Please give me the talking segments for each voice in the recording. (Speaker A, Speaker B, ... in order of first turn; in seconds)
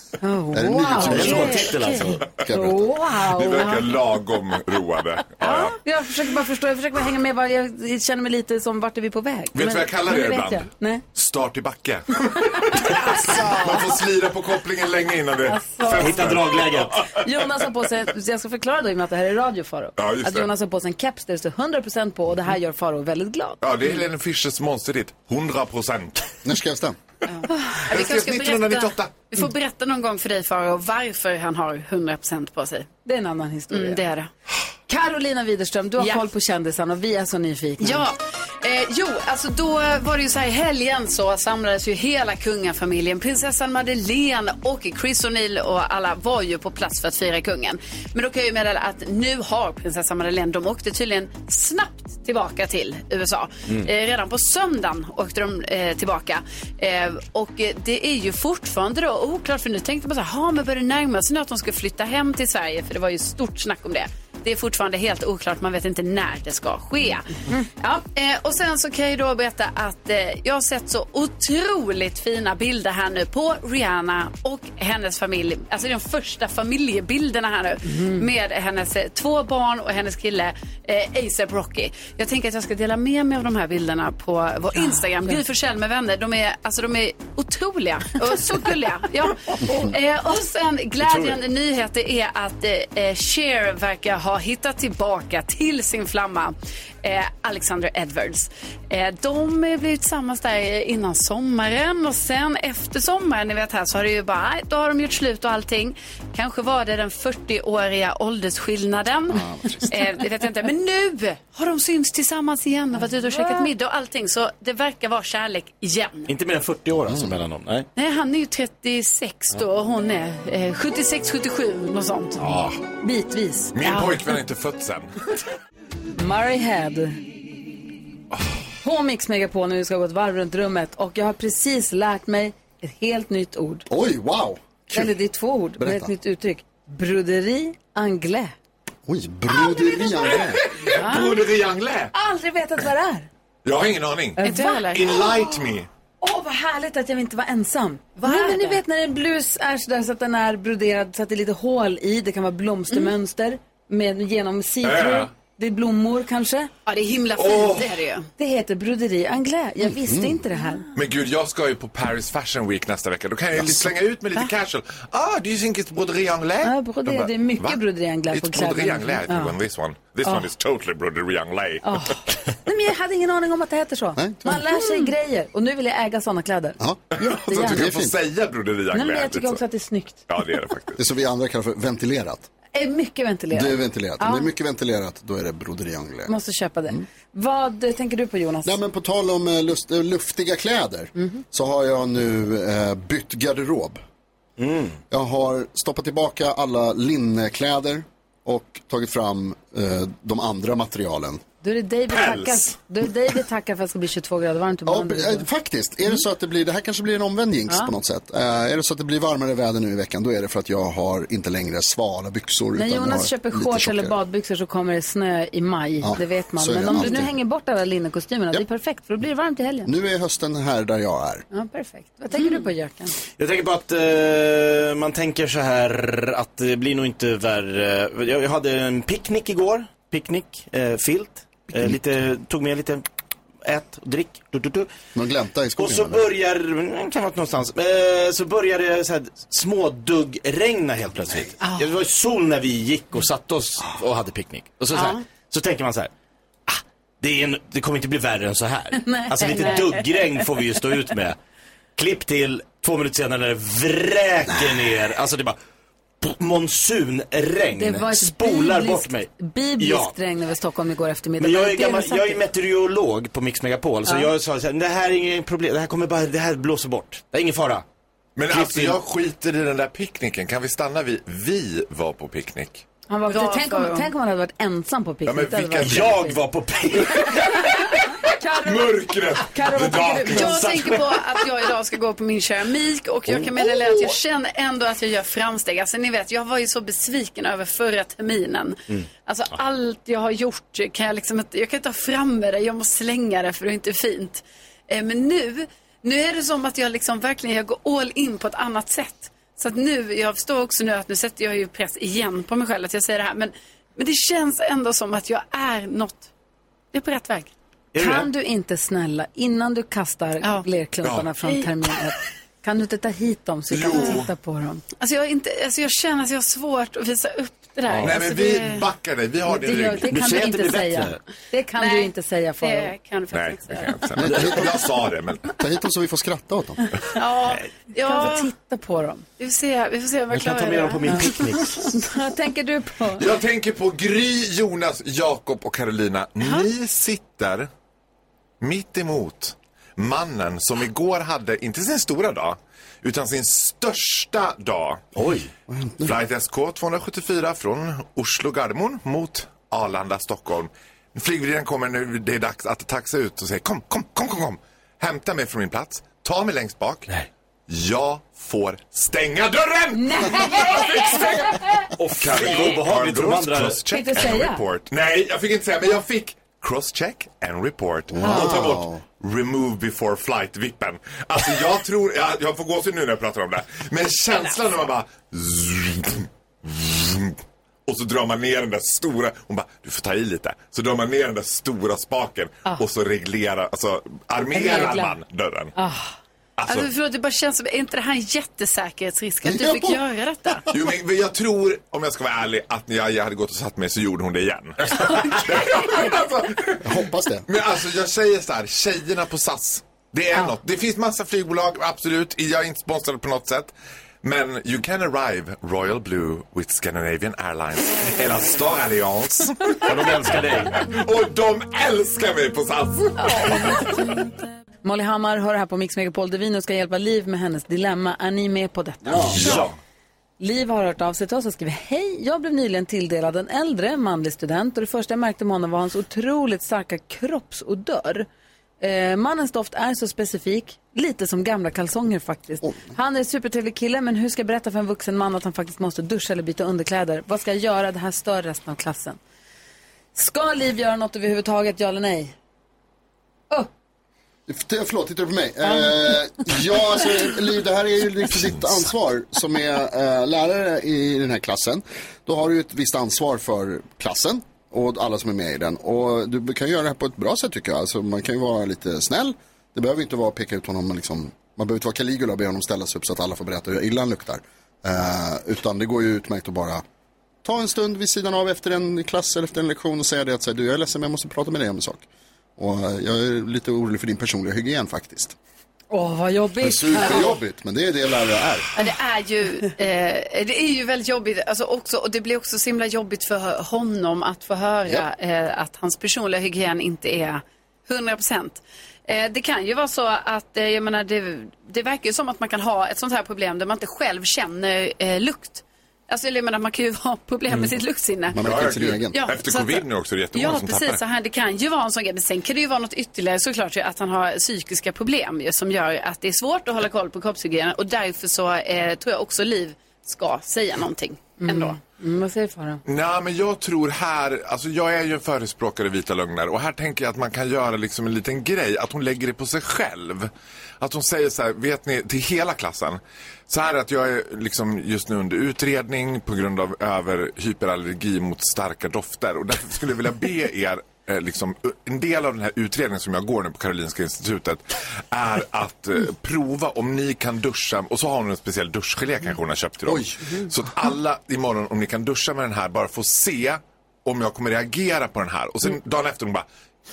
Speaker A: 0.2-1.7, 2.5-3.9, 5.5-11.0, 12.8-13.8, 15.4-16.3, 17.1-23.6, 33.0-34.0, 34.9-38.1, 77.9-78.3, 84.8-85.4, 113.2-113.7, 123.0-123.8, 126.2-127.2, 128.8-133.9, 134.9-138.5, 140.9-141.3, 142.1-143.3, 144.4-144.8, 146.2-156.7, 158.4-160.9, 166.6-169.5, 171.8-177.9, 178.9-180.2, 182.7-184.5, 186.3-188.8, 201.6-205.5, 212.8-219.9, 221.5-223.2, 249.0-250.2, 257.8-262.4, 273.1-276.4, 277.3-280.6, 308.0-314.8, 319.5-322.9, 328.0-329.2, 331.1-333.2, 359.9-361.9, 363.9-364.6, 384.5-385.2, 385.8-386.1, 413.2-414.3, 414.8-419.6, 420.4-428.3, 428.8-439.2, 440.1-442.3, 445.6-446.1, 475.9-477.4, 511.4-512.8
Speaker B: 0.5-2.9, 26.4-27.0, 109.3-110.0, 117.1-117.3, 133.9-135.1, 135.8-136.1, 139.1-140.6, 159.8-160.4, 174.2-174.6, 177.6-178.1, 181.0-182.5, 183.5-186.3, 188.6-194.0, 195.1-201.4, 204.9-214.2, 216.0-217.3, 219.9-221.4, 235.1-236.2, 324.2-324.7, 325.6-326.8, 345.7-346.1, 368.1-369.0, 389.4-390.0, 396.8-397.5, 444.5-466.8, 467.4-472.1, 472.6-475.4, 476.6-478.7, 498.3-499.2, 539.9-540.1
Speaker C: 1.0-2.2, 16.0-17.0, 91.0-91.4, 116.3-117.9, 122.4-122.8, 194.6-195.0, 223.4-233.0, 233.6-234.9, 235.8-246.1, 246.7-251.4, 252.0-255.6, 256.2-260.1, 261.4-267.8, 268.5-269.0, 275.8-277.4, 280.4-281.2, 307.9-308.3, 317.9-318.1, 320.1-321.2, 330.3-331.9, 345.2-345.5, 362.0-363.8, 409.9-410.8, 419.2-419.6
Speaker D: 1.2-2.1, 27.3-32.9, 33.7-34.3, 37.8-116.3, 118.0-122.4, 123.8-124.1, 144.4-145.3, 148.2-148.8, 156.9-158.3, 174.7-175.1, 244.9-245.2, 273.3-274.1, 280.3-306.3, 306.9-307.5, 315.0-318.9, 321.8-324.1, 327.1-328.5, 329.4-331.5, 386.7-390.6, 478.8-498.4, 499.1-511.8
Speaker E: 3.2-5.8, 9.5-17.5, 20.0-20.5, 23.6-26.4, 27.9-29.3, 123.7-125.1, 140.2-142.1, 143.6-145.9, 154.8-155.3, 157.3-158.0, 160.9-172.1, 177.1-179.6, 180.3-181.0, 202.1-202.8, 268.4-272.8, 275.2-276.2, 277.2-280.5, 311.0-311.3, 313.7-314.3, 318.0-320.1, 323.3-325.5, 333.2-337.7, 338.6-345.1, 346.0-357.1, 357.7-385.7, 386.6-386.9, 390.7-414.1, 419.2-419.8, 448.4-448.8, 498.4-501.0, 512.9-546.5